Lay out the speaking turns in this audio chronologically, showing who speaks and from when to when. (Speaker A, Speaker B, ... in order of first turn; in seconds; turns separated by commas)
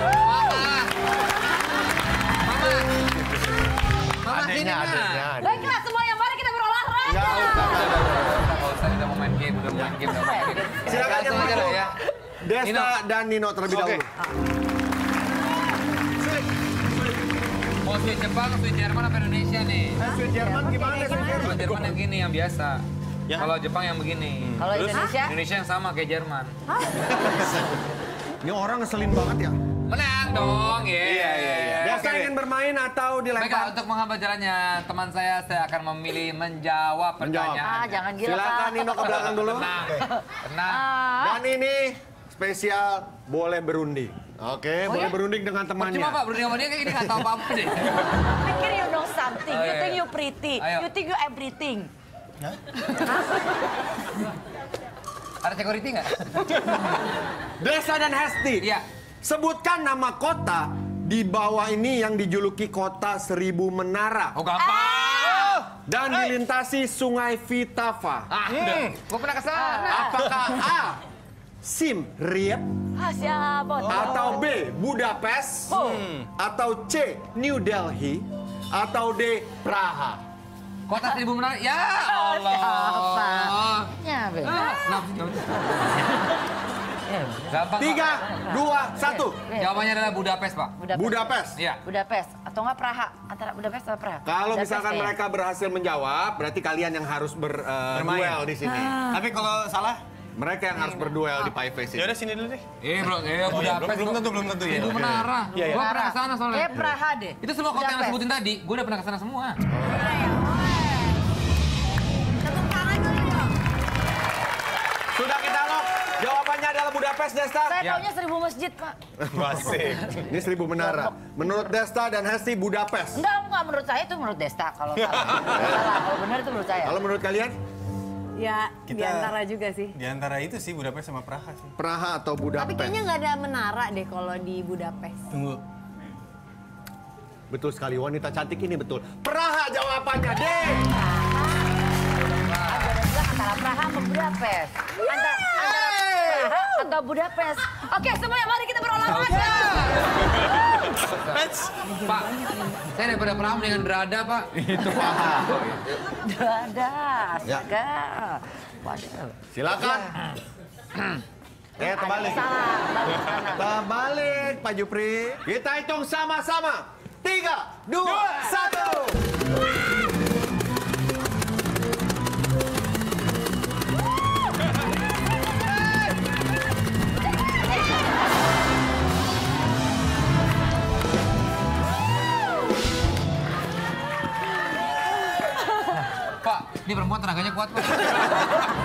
Speaker A: 0.1-0.9, Speaker A: 2.4-3.1, Speaker A: 4.2-5.3, Speaker B: 4.3-5.8, Speaker C: 5.4-8.0, Speaker B: 7.0-8.4, Speaker A: 7.5-12.0, Speaker B: 9.8-10.0, Speaker C: 10.1-11.3, Speaker B: 10.8-11.9, Speaker B: 12.4-14.1, Speaker A: 12.6-13.0, Speaker A: 13.7-14.0, Speaker A: 17.8-20.0, Speaker B: 20.0-22.0, Speaker D: 20.0-21.5, Speaker C: 20.4-21.2, Speaker A: 21.2-22.8, Speaker A: 23.3-26.5, Speaker E: 24.4-25.0, Speaker C: 24.6-25.4, Speaker D: 26.7-27.2, Speaker B: 27.0-27.8, Speaker B: 28.4-29.6, Speaker A: 29.9-32.2, Speaker E: 30.8-32.4, Speaker B: 31.8-33.8, Speaker A: 33.3-38.0, Speaker B: 37.2-37.7, Speaker C: 37.6-39.2, Speaker B: 38.2-39.7, Speaker A: 39.0-40.9, Speaker C: 40.7-41.4, Speaker B: 41.2-46.3, Speaker C: 44.9-45.1, Speaker A: 45.8-48.2, Speaker B: 46.8-47.3, Speaker C: 48.2-51.9, Speaker A: 49.5-50.1, Speaker A: 50.6-50.9, Speaker A: 55.4-56.8, Speaker B: 57.6-58.7, Speaker A: 58.6-58.9, Speaker B: 59.2-64.4, Speaker A: 64.3-65.6, Speaker C: 64.6-65.6, Speaker E: 65.3-66.3, Speaker B: 65.8-68.3, Speaker A: 68.3-70.2, Speaker E: 68.5-69.0, Speaker C: 69.5-70.1, Speaker B: 69.9-71.0, Speaker B: 71.6-72.7, Speaker C: 73.0-74.5, Speaker E: 73.9-74.1, Speaker B: 73.9-75.8, Speaker C: 75.7-76.0, Speaker E: 75.7-76.3, Speaker B: 76.4-80.2, Speaker A: 80.9-86.0, Speaker C: 82.1-85.0, Speaker C: 87.1-87.7, Speaker A: 87.5-88.2, Speaker B: 87.8-89.4, Speaker C: 88.2-89.8, Speaker A: 89.6-90.8, Speaker C: 90.8-91.3, Speaker B: 90.9-91.6, Speaker A: 91.6-91.8, Speaker C: 91.8-95.2, Speaker B: 94.2-99.0, Speaker E: 97.9-98.5, Speaker C: 98.7-99.2, Speaker E: 99.0-100.0, Speaker B: 100.4-102.2, Speaker E: 101.9-105.8, Speaker A: 102.8-106.8, Speaker B: 104.7-105.3, Speaker C: 105.7-108.2, Speaker A: 107.4-109.6, Speaker B: 109.8-110.1, Speaker D: 110.0-110.7, Speaker D: 112.4-113.5, Speaker B: 115.1-117.8, Speaker C: 117.7-119.0, Speaker E: 119.3-120.3, Speaker B: 120.2-123.2, Speaker C: 120.8-121.4, Speaker C: 123.2-127.0, Speaker E: 125.0-125.6, Speaker B: 125.4-125.9, Speaker B: 126.8-127.5, Speaker D: 128.4-130.0, Speaker E: 128.9-129.4, Speaker E: 129.9-131.7, Speaker B: 131.8-133.0, Speaker D: 132.6-135.3, Speaker E: 135.3-135.6, Speaker B: 137.5-140.9, Speaker A: 142.4-142.9, Speaker C: 142.7-150.9, Speaker B: 145.6-146.7, Speaker A: 149.1-150.3, Speaker E: 149.3-151.9, Speaker A: 150.9-155.9, Speaker D: 151.9-152.8, Speaker B: 154.8-155.5, Speaker C: 156.1-159.4, Speaker B: 159.5-160.2, Speaker B: 161.8-162.6, Speaker C: 161.8-163.7, Speaker B: 163.3-169.2, Speaker A: 186.2-188.7